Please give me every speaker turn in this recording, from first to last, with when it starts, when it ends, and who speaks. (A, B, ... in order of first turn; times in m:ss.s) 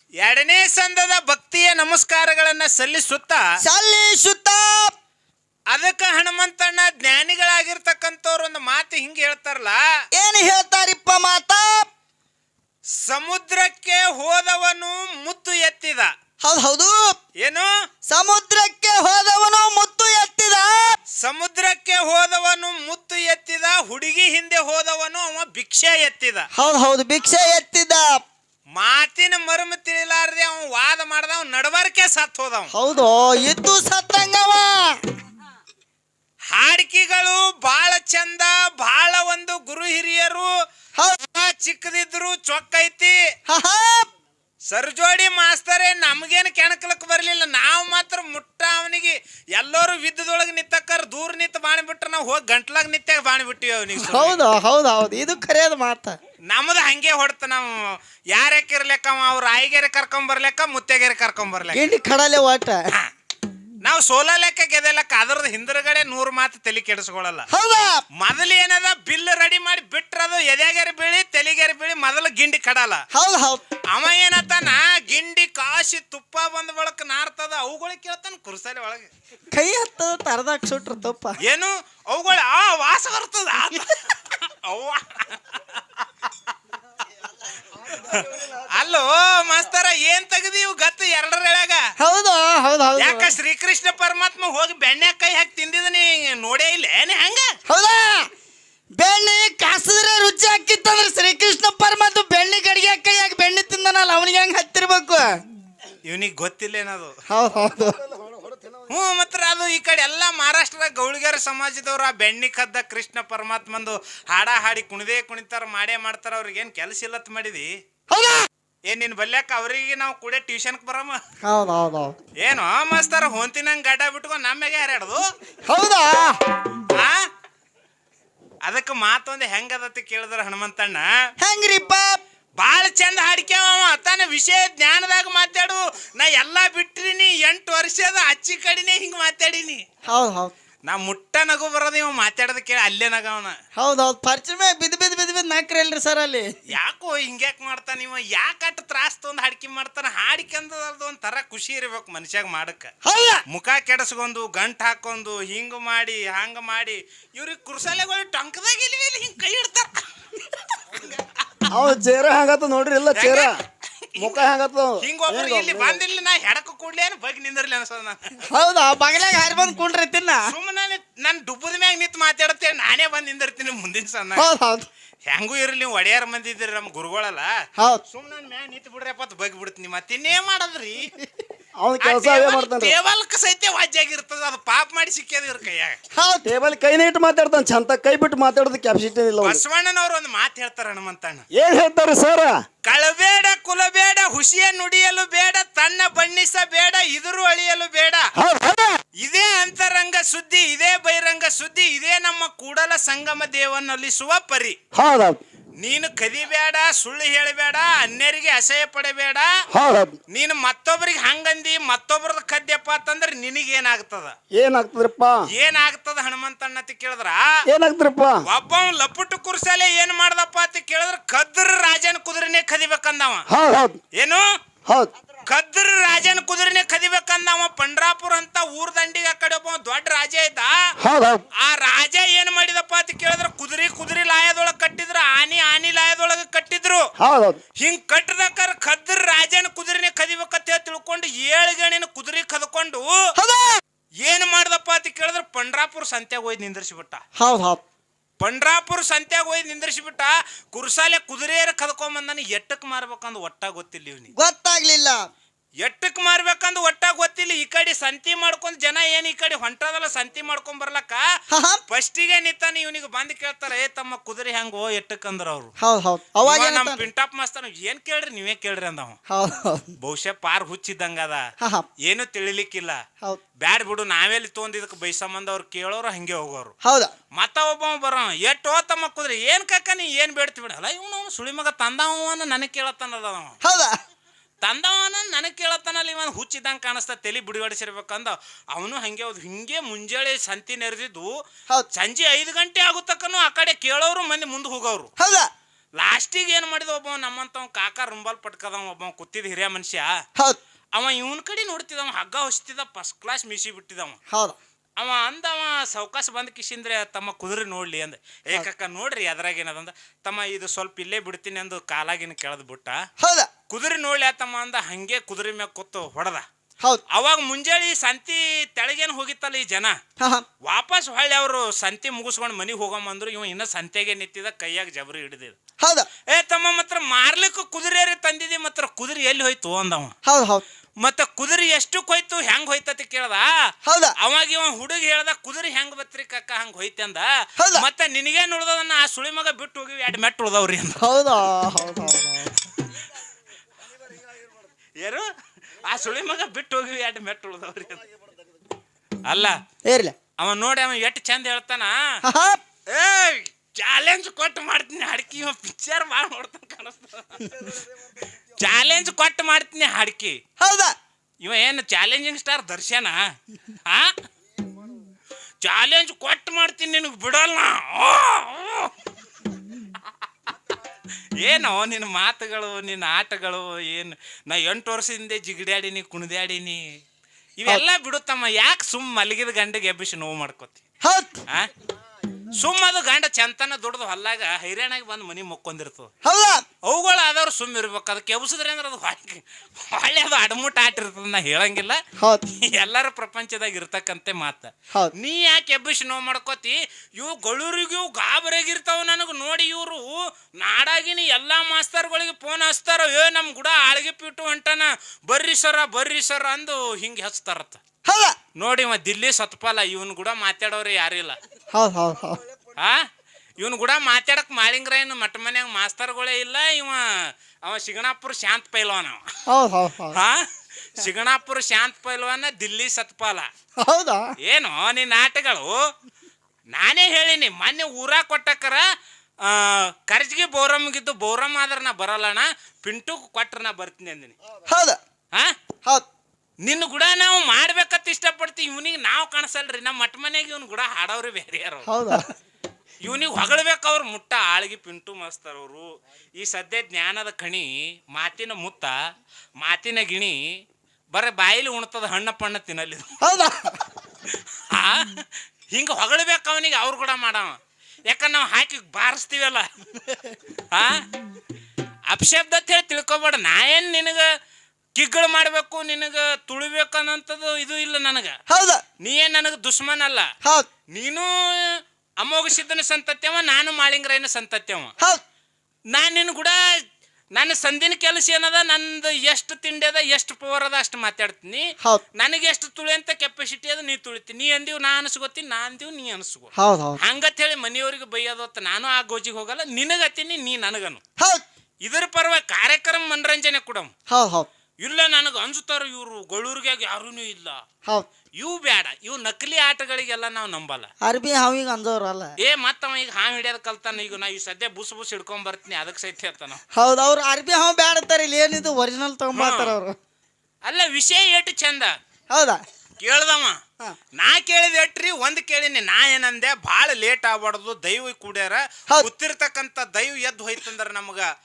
0:00.2-0:03.4 A
0:03.6-0:04.9 B
0:05.7-0:09.8 A
0:10.2-0:11.9 B
0:12.9-0:16.1 A
0:16.4-0:17.2 B
0:17.4-0:17.7 A
0:18.1-0:21.0 B
0:21.2-0:26.5 A
0:26.5-0:28.2 B
0:28.7-0:32.7 A
0:32.7-0:35.0 B
0:36.5-0:40.5 A
0:41.2-0:43.2 A
0:43.5-0:44.1 B
0:44.7-0:54.4 A
0:53.9-0:56.2 B
0:56.5-1:01.9 A
1:01.7-1:02.9 B
1:03.8-1:07.5 A
1:07.5-1:08.0 B
1:08.2-1:13.0 A
1:13.1-1:13.6 B
1:13.9-1:19.1 A
1:19.5-1:21.4 B
1:21.4-1:26.6 A
1:27.9-1:31.8 A
1:32.0-1:33.3 B
1:33.0-1:37.5 A
1:37.7-1:38.3 B
1:39.0-1:45.4 B
1:46.0-1:47.2 A
1:47.3-1:48.0 B
1:47.9-1:48.9 C
1:48.9-1:57.7 A
1:58.1-1:58.5 B
1:58.9-2:01.2 A
2:01.4-2:02.2 B
2:02.4-2:05.2 A
2:05.7-2:06.7 B
2:06.8-2:07.2 A
2:08.6-2:11.1 A
2:11.4-2:12.2 B
2:12.6-2:19.8 A
2:20.1-2:20.5 B
2:20.9-2:23.6 A
2:23.8-2:26.5 B
2:26.7-2:32.9 A
2:33.0-2:33.4 B
2:33.5-2:40.1 A
2:41.0-2:41.7 A
2:41.7-2:43.5 C
2:43.1-2:44.4 A
2:44.2-2:46.0 C
2:45.0-2:48.4 A
2:48.5-2:50.5 B
2:50.5-2:54.5 A
2:54.4-2:54.9 B
2:55.3-2:57.5 A
2:58.1-3:01.1 A
3:01.8-3:03.0 C
3:02.0-3:06.0 A
3:06.1-3:06.5 B
3:06.5-3:09.6 C
3:09.4-3:11.4 A
3:11.5-3:12.6 C
3:12.8-3:18.3 A
3:18.4-3:19.0 C
3:19.2-3:24.8 A
3:24.9-3:25.4 C
3:25.8-3:29.5 A
3:29.7-3:30.2 C
3:30.3-3:34.4 A
3:34.6-3:35.4 C
3:35.5-3:37.6 A
3:37.7-3:38.4 C
3:38.4-3:43.4 A
3:43.5-3:44.0 C
3:44.1-3:44.5 A
3:44.9-3:45.1 C
3:45.5-3:50.8 A
3:51.0-3:51.5 C
3:51.6-3:57.0 A
3:57.2-3:57.6 C
3:57.8-4:03.3 A
4:03.4-4:03.8 B
4:04.2-4:07.2 A
4:07.4-4:07.8 B
4:08.4-4:14.3 A
4:14.4-4:15.2 B
4:15.8-4:21.3 A
4:21.5-4:21.8 B
4:21.9-4:25.7 A
4:25.8-4:27.0 B
4:26.4-4:29.2 A
4:29.3-4:29.9 B
4:30.0-4:31.5 A
4:31.6-4:31.9 B
4:32.0-4:33.0 A
4:33.6-4:36.7 A
4:36.8-4:37.1 B
4:37.4-4:43.6 A
4:43.6-4:44.0 B
4:44.6-4:51.3 A
4:51.9-4:55.1 A
4:55.2-4:55.5 B
4:56.0-5:00.1 A
5:01.0-5:04.2 A
5:04.3-5:04.6 B
5:05.0-5:13.0 A
5:13.2-5:13.5 B
5:13.7-5:16.4 A
5:17.1-5:20.0 A
5:20.2-5:20.4 B
5:20.6-5:25.6 A
5:25.8-5:26.1 B
5:26.3-5:30.1 A
5:30.2-5:30.6 B
5:31.0-5:41.0 A
5:33.8-5:34.2 B
5:37.6-5:37.8 B
5:41.0-5:42.5 B
5:45.0-5:45.3 A
5:45.8-5:48.0 A
5:49.2-5:49.6 A
5:49.9-5:50.2 B
5:50.4-5:52.0 A
5:52.2-5:52.6 B
5:52.9-5:57.7 A
5:58.2-6:00.4 A
6:00.6-6:01.0 B
6:01.4-6:04.1 A
6:05.6-6:08.9 A
6:11.4-6:17.0 A
6:17.6-6:20.8 A
6:21.0-6:21.4 B
6:22.5-6:26.1 A
6:26.2-6:26.6 B
6:26.8-6:47.8 A
6:32.2-6:32.4 B
6:48.0-6:48.4 B
6:48.6-6:51.4 A
6:51.7-6:52.4 B
6:52.8-6:53.1 A
6:53.6-6:59.2 A
6:59.5-7:00.2 B
7:00.1-7:03.5 A
7:03.8-7:04.3 B
7:04.4-7:05.9 A
7:06.7-7:08.8 A
7:09.4-7:14.4 A
7:14.7-7:15.0 B
7:16.6-7:22.2 A
7:21.9-7:22.2 B
7:23.0-7:29.0 A
7:29.6-7:30.6 A
7:31.1-7:33.2 A
7:33.2-7:33.8 B
7:34.2-7:37.6 A
7:38.1-7:39.7 A
7:40.7-7:41.1 A
7:42.1-7:44.3 A
7:45.0-7:48.4 A
7:48.5-7:48.8 B
7:49.0-7:50.3 A
7:50.4-7:50.7 B
7:50.9-7:54.9 A
7:55.9-7:56.6 A
7:57.3-8:11.0 A
8:06.6-8:07.0 B
8:11.2-8:11.4 B
8:11.8-8:13.9 A
8:14.1-8:14.5 B
8:14.8-8:17.6 A
8:18.4-8:20.9 A
8:21.0-8:22.4 B
8:22.4-8:26.6 A
8:26.7-8:30.0 B
8:29.3-8:29.8 A
8:30.6-8:32.0 A
8:32.3-8:32.6 B
8:33.0-8:33.6 A
8:34.2-8:41.3 A